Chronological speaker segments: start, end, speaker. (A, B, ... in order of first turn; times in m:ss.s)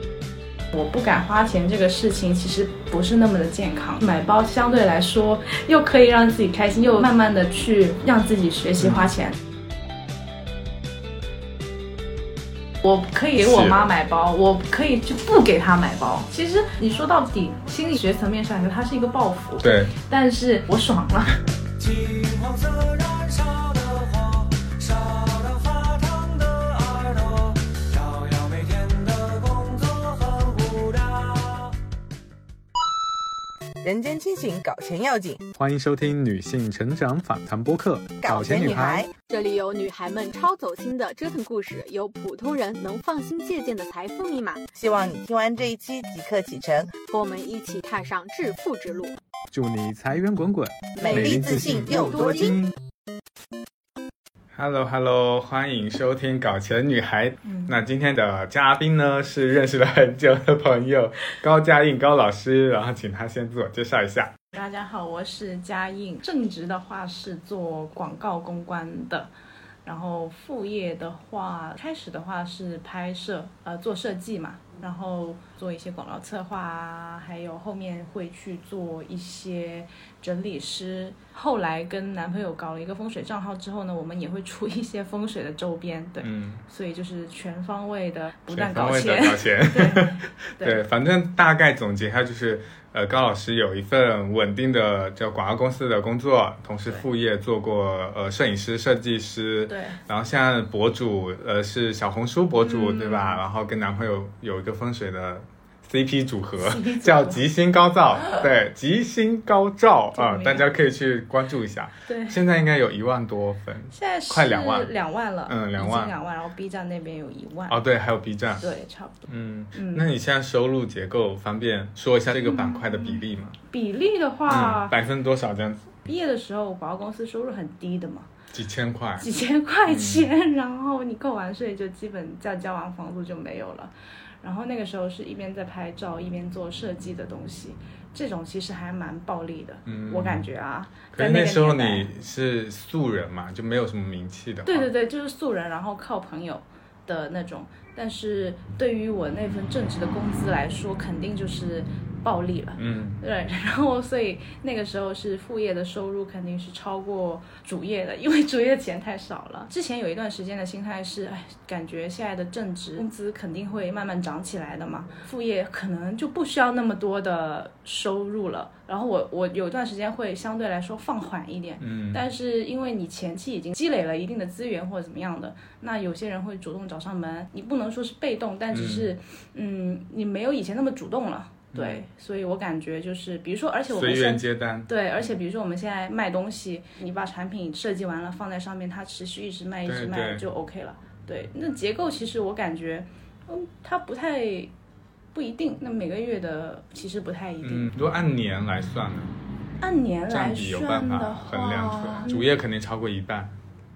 0:00.7-0:09.4 A
0:08.8-0:09.1 B
0:12.8-0:21.4 A
0:13.4-0:13.9 B
0:19.6-0:19.9 B
0:21.8-0:31.7 C
0:33.8-0:35.4 D
0:35.6-0:39.0 B
0:38.2-0:39.1 D
0:39.3-0:44.7 E
0:44.8-0:46.9 D
0:47.1-0:49.2 E
0:49.5-0:52.7 B
0:51.0-0:52.6 D
0:51.0-0:52.6 E
0:54.6-1:04.3 B
0:57.4-0:57.7 A
1:04.5-1:09.3 A
1:09.8-1:30.8 A
1:26.2-1:26.6 B
1:28.5-1:54.9 B
1:39.7-1:40.0 A
1:42.6-1:43.4 A
1:46.6-1:47.4 A
1:48.2-1:48.4 A
1:50.1-1:50.7 A
1:52.1-1:52.4 A
1:53.9-1:57.8 A
1:55.5-1:56.1 B
1:57.7-1:58.7 B
1:58.6-2:00.1 A
1:59.3-2:03.6 B
2:02.4-2:05.0 A
2:04.5-2:06.0 B
2:06.0-2:08.3 A
2:08.5-2:09.3 B
2:09.2-2:13.9 A
2:09.9-2:10.3 B
2:14.4-2:22.1 A
2:19.8-2:20.5 B
2:21.1-2:24.9 B
2:24.7-3:14.7 A
2:32.8-2:33.2 B
2:51.8-2:52.2 B
2:58.7-2:59.1 B
3:01.7-3:02.0 B
3:03.9-3:04.9 B
3:09.8-3:10.5 B
3:15.3-3:17.9 A
3:17.6-3:19.4 B
3:19.8-3:22.5 A
3:20.3-3:23.5 B